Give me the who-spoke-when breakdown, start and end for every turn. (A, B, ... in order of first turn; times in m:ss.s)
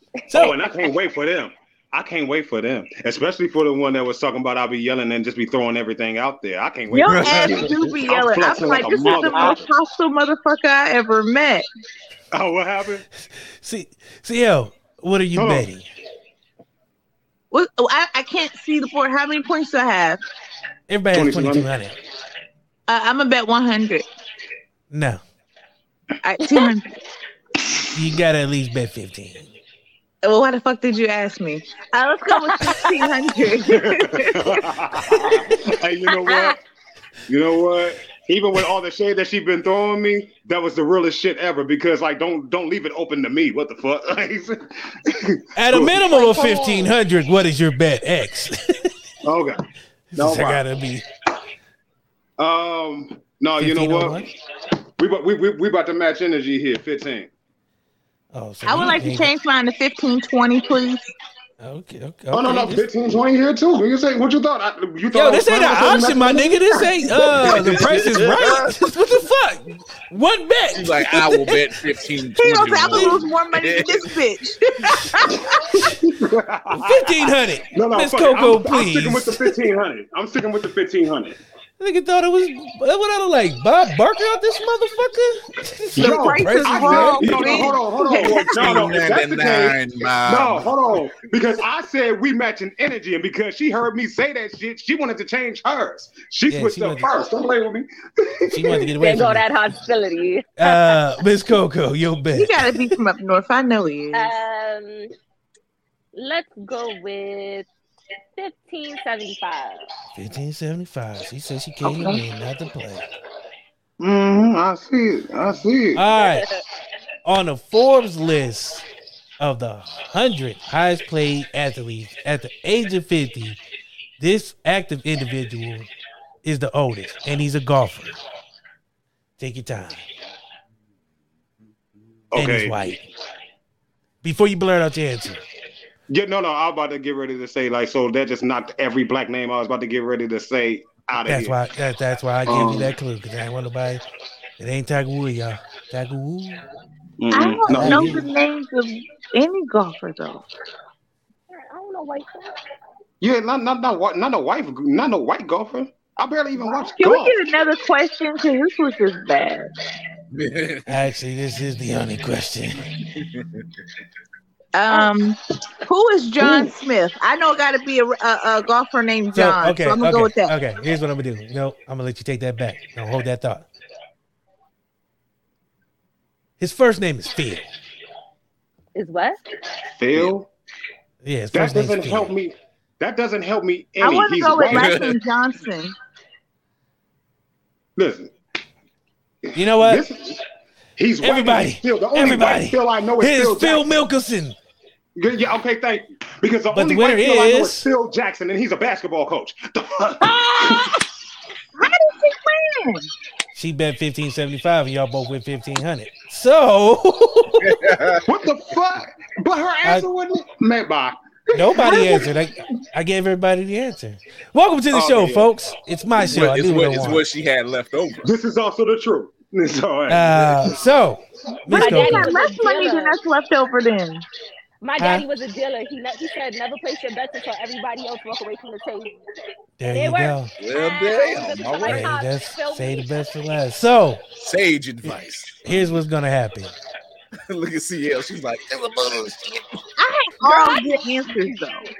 0:00.3-0:00.6 A
0:00.3-0:09.6 B
0:06.9-0:11.6 C
0:07.0-0:07.9 D
0:09.0-0:09.6 E
0:12.3-0:13.0 B
0:13.6-0:15.9 A
0:15.4-0:15.7 B
0:17.5-0:20.2 C
0:20.9-0:22.0 A
0:21.1-0:21.7 B
0:22.9-0:24.0 C
0:24.9-0:25.2 A
0:26.2-0:27.0 C
0:27.9-0:29.5 A
0:30.2-0:35.4 C
0:33.7-0:36.6 B
0:36.2-0:36.5 E
0:37.3-0:46.0 B
0:45.6-0:48.9 A
0:46.1-0:46.9 E
0:49.2-0:49.6 B
0:50.1-0:51.0 A
0:50.2-0:50.6 B
0:52.4-0:54.2 B
0:53.6-0:54.2 A
0:55.0-0:57.3 B
0:58.3-0:59.3 A
0:58.6-1:01.1 C
1:01.6-1:02.9 A
1:02.3-1:06.9 B
1:05.1-1:11.7 A
1:07.4-1:08.8 D
1:10.7-1:14.1 D
1:12.4-1:15.6 C
1:12.9-1:13.2 A
1:15.5-1:17.2 B
1:16.7-1:19.5 A
1:17.7-1:21.4 B
1:21.8-1:27.7 A
1:26.0-1:38.9 B
1:26.0-1:28.8 C
1:28.2-1:30.9 D
1:36.5-1:37.1 A
1:38.5-1:39.4 A
1:39.0-1:41.0 E
1:40.6-1:42.7 A
1:42.3-1:44.4 C
1:44.1-1:45.1 E
1:46.1-1:47.7 E
1:48.4-1:49.8 E
1:50.1-1:53.1 A
1:51.8-1:52.2 C
1:54.0-1:56.0 B
1:55.9-1:56.4 A
1:56.2-1:56.6 E
1:57.2-1:58.8 A
1:59.4-2:03.6 A
2:04.2-2:05.9 A
2:06.4-2:08.2 A
2:09.4-2:10.0 A
2:12.3-2:13.0 B
2:12.3-2:13.0 A
2:14.2-2:15.4 A
2:16.1-2:21.6 B
2:21.2-2:24.0 A
2:22.5-2:22.9 B
2:24.6-2:26.6 A
2:27.2-2:28.2 B
2:27.3-2:30.4 C
2:27.6-2:28.3 A
2:31.5-2:32.5 E
2:33.2-2:37.4 B
2:37.0-2:39.7 C
2:40.3-2:41.0 D
2:40.9-2:42.9 A
2:44.7-2:50.5 C
2:49.3-2:53.7 A
2:56.6-2:57.7 A
2:58.9-2:59.4 E
3:00.0-3:00.5 B
3:01.2-3:02.3 A
3:01.5-3:05.1 B
3:04.0-3:06.0 C
3:04.7-3:05.2 D
3:08.0-3:08.3 B
3:09.5-3:10.0 A
3:09.8-3:10.4 B
3:11.0-3:13.9 B
3:11.2-3:14.6 A
3:15.2-3:21.0 B
3:16.7-3:17.9 A
3:20.2-3:21.0 C
3:21.8-3:23.1 C
3:23.5-3:27.9 A
3:27.6-3:28.2 D
3:28.2-3:32.3 B
3:31.5-3:37.2 A
3:34.9-3:35.5 B
3:36.2-3:38.3 D
3:38.2-3:40.8 B
3:40.1-3:42.3 A
3:41.7-3:44.2 C
3:41.7-3:43.2 E
3:44.8-3:49.1 E
3:45.0-3:45.2 A
3:49.8-3:50.5 A
3:49.9-3:53.1 E
3:50.6-3:52.1 D
3:51.8-3:54.2 A
3:54.4-3:55.6 D
3:55.0-3:56.7 A
3:57.5-3:59.6 D
4:00.0-4:01.9 C
4:00.4-4:00.9 E